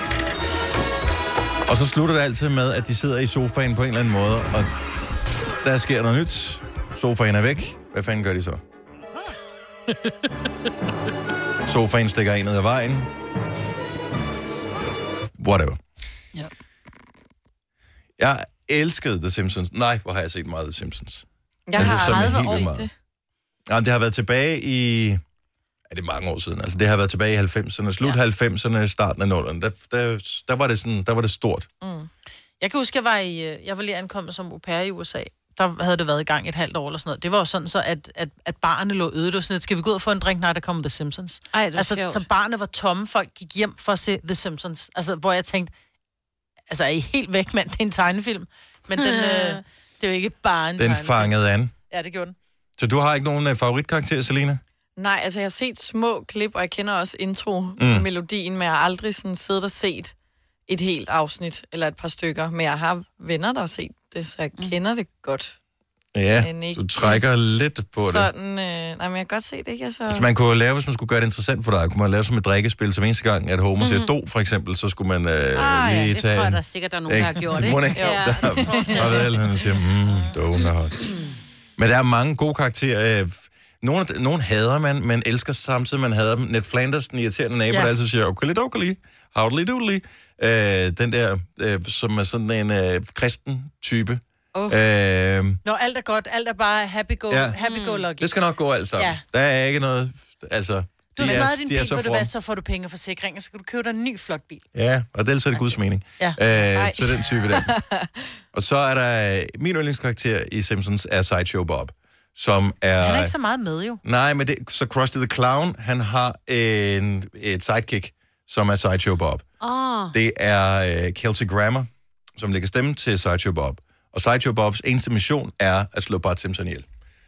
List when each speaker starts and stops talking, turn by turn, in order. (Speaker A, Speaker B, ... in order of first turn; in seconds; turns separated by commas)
Speaker A: 1.7-4.7, Speaker A: 5.6-8.6, Speaker A: 11.7-13.1, Speaker A: 15.4-15.8, Speaker A: 18.2-22.9, Speaker B: 21.7-22.9, Speaker C: 21.7-22.7, Speaker A: 23.7-25.2, Speaker A: 25.9-31.7, Speaker B: 31.8-32.1, Speaker C: 32.6-45.7, Speaker D: 41.5-42.2, Speaker C: 46.7-51.3, Speaker D: 49.0-49.6, Speaker A: 50.8-51.7, Speaker C: 51.9-52.4, Speaker A: 52.8-54.6, Speaker B: 55.0-60.1, Speaker A: 57.8-58.1, Speaker B: 60.7-65.6, Speaker A: 66.1-68.3, Speaker B: 66.4-67.2, Speaker B: 68.0-70.3, Speaker A: 70.1-81.1, Speaker D: 73.8-74.1, Speaker D: 75.6-79.3, Speaker B: 78.0-79.3, Speaker A: 81.8-95.6, Speaker C: 95.7-98.3, Speaker A: 97.3-97.6, Speaker D: 97.6-98.0, Speaker A: 98.2-102.3, Speaker C: 101.1-104.7, Speaker A: 104.7-107.7, Speaker B: 106.7-108.2, Speaker A: 108.5-113.3, Speaker C: 113.0-114.0, Speaker A: 114.0-119.5, Speaker D: 119.6-120.2, Speaker A: 120.1-126.8